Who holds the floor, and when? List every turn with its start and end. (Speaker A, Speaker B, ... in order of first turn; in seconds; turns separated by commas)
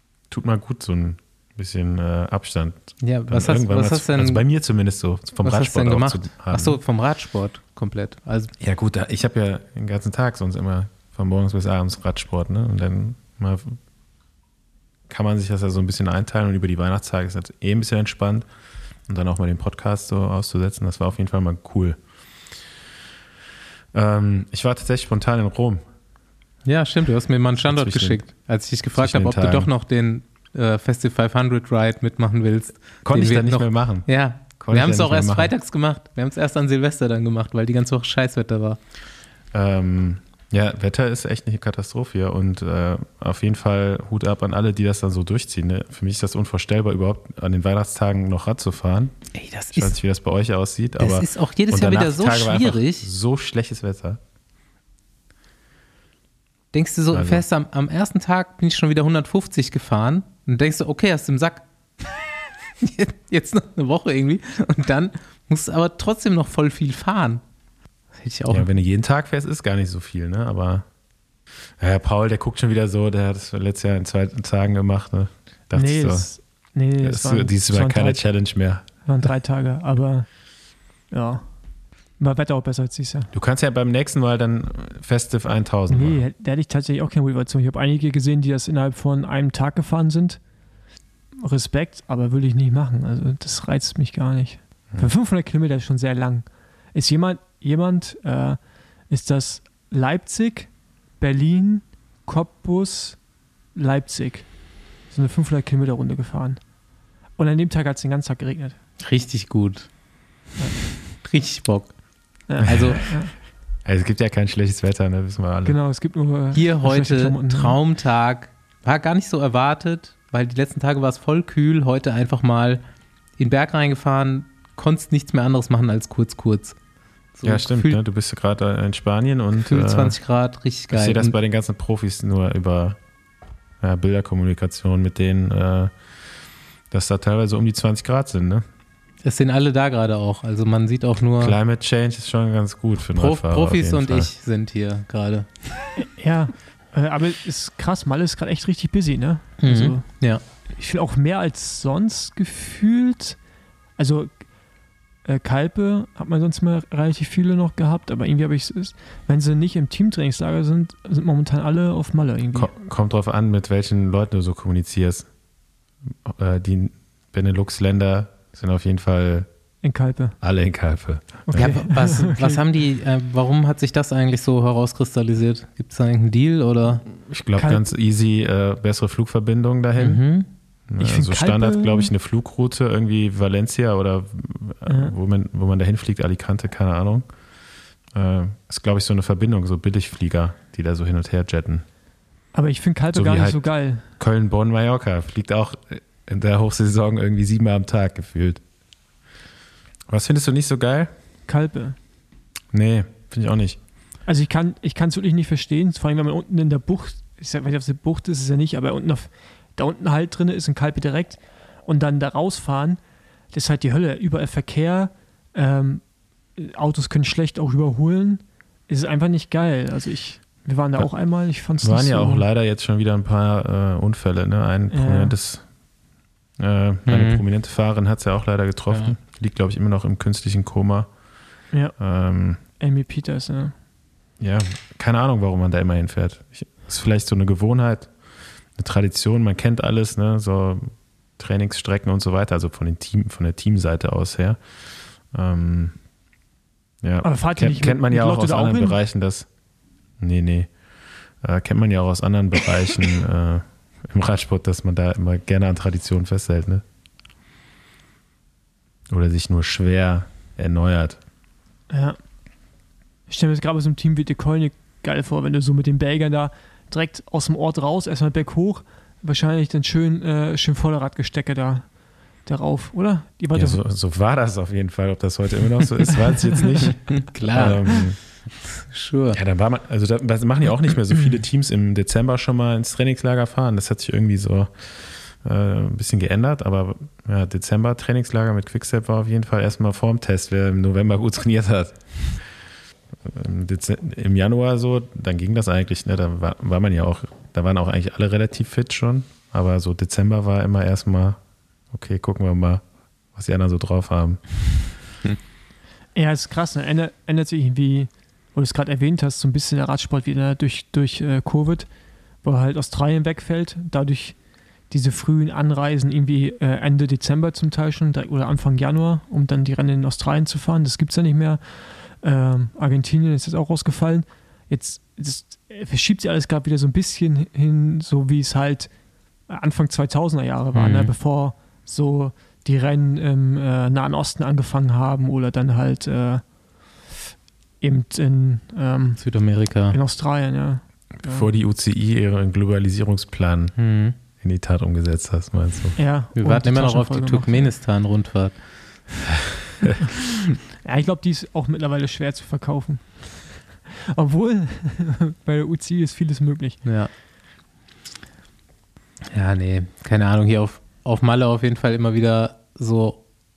Speaker A: 0.3-6.8, Speaker B: 3.0-4.4, Speaker B: 5.4-8.5, Speaker A: 8.6-13.8, Speaker A: 15.1-18.5, Speaker A: 19.1-22.0, Speaker A: 23.9-25.8, Speaker B: 26.6-38.8, Speaker A: 27.6-28.2, Speaker A: 29.0-29.7, Speaker A: 33.0-35.5, Speaker A: 39.5-49.2, Speaker B: 49.3-50.0, Speaker A: 49.7-54.2, Speaker B: 51.0-53.1, Speaker B: 56.7-61.6, Speaker A: 57.1-57.4, Speaker B: 62.8-67.4, Speaker B: 68.2-68.7, Speaker A: 68.5-70.9, Speaker A: 71.8-76.3, Speaker C: 75.7-78.3, Speaker A: 77.0-79.0, Speaker C: 79.0-80.3, Speaker C: 81.1-81.6, Speaker C: 82.2-83.3, Speaker A: 83.3-86.2, Speaker C: 85.9-90.4, Speaker C: 91.4-103.2, Speaker C: 103.8-106.7, Speaker C: 107.4-108.8, Speaker B: 109.0-109.9, Speaker C: 110.6-110.8, Speaker B: 111.1-113.1, Speaker C: 112.5-113.3, Speaker A: 113.8-115.8, Speaker C: 115.7-117.8, Speaker B: 116.5-122.8, Speaker B: 123.4-126.8, Speaker B: 127.4-128.0, Speaker A: 127.4-130.2, Speaker B: 129.6-131.3, Speaker A: 130.9-133.0, Speaker A: 133.8-135.9, Speaker A: 136.9-138.7, Speaker B: 139.2-141.6, Speaker A: 141.4-144.3, Speaker B: 143.2-145.7, Speaker C: 146.0-150.2, Speaker B: 149.6-150.4, Speaker C: 150.8-153.4, Speaker C: 154.0-154.4, Speaker C: 155.2-162.7, Speaker A: 162.5-165.3, Speaker A: 166.2-169.5, Speaker C: 169.8-170.4, Speaker A: 170.4-171.7, Speaker C: 171.5-172.6, Speaker B: 171.5-177.1, Speaker A: 177.2-180.2, Speaker C: 177.6-177.9, Speaker B: 180.0-180.5, Speaker A: 180.9-187.3, Speaker C: 181.0-182.1, Speaker C: 184.9-185.2, Speaker A: 188.1-191.8, Speaker C: 192.5-194.1, Speaker A: 193.1-198.6, Speaker A: 200.1-201.1, Speaker C: 201.5-202.0, Speaker A: 202.7-203.8, Speaker C: 204.3-213.0, Speaker C: 213.5-222.4, Speaker A: 221.8-225.7, Speaker C: 224.9-225.3, Speaker A: 226.6-231.1, Speaker B: 227.1-227.4, Speaker B: 228.9-229.2, Speaker C: 231.7-232.0, Speaker A: 232.0-232.6, Speaker C: 232.8-233.7, Speaker A: 234.4-238.1, Speaker A: 238.8-244.6, Speaker A: 245.3-246.0, Speaker A: 247.0-249.5, Speaker C: 247.2-249.0, Speaker A: 250.2-250.7, Speaker A: 251.4-256.8, Speaker A: 259.1-261.2, Speaker C: 261.9-262.2, Speaker C: 263.3-273.8, Speaker A: 273.5-278.2, Speaker B: 277.1-279.4, Speaker A: 279.3-292.4, Speaker A: 293.2-301.4, Speaker A: 301.9-304.8, Speaker C: 306.1-311.9, Speaker C: 312.4-328.9, Speaker C: 329.5-336.5, Speaker B: 330.8-331.1, Speaker C: 337.8-339.2, Speaker B: 339.2-340.0, Speaker C: 339.9-341.5, Speaker A: 341.2-343.7, Speaker B: 343.8-344.2, Speaker A: 344.4-346.0, Speaker C: 346.0-347.7, Speaker B: 346.4-348.6, Speaker C: 350.8-356.8, Speaker B: 356.8-357.1, Speaker B: 359.3-363.2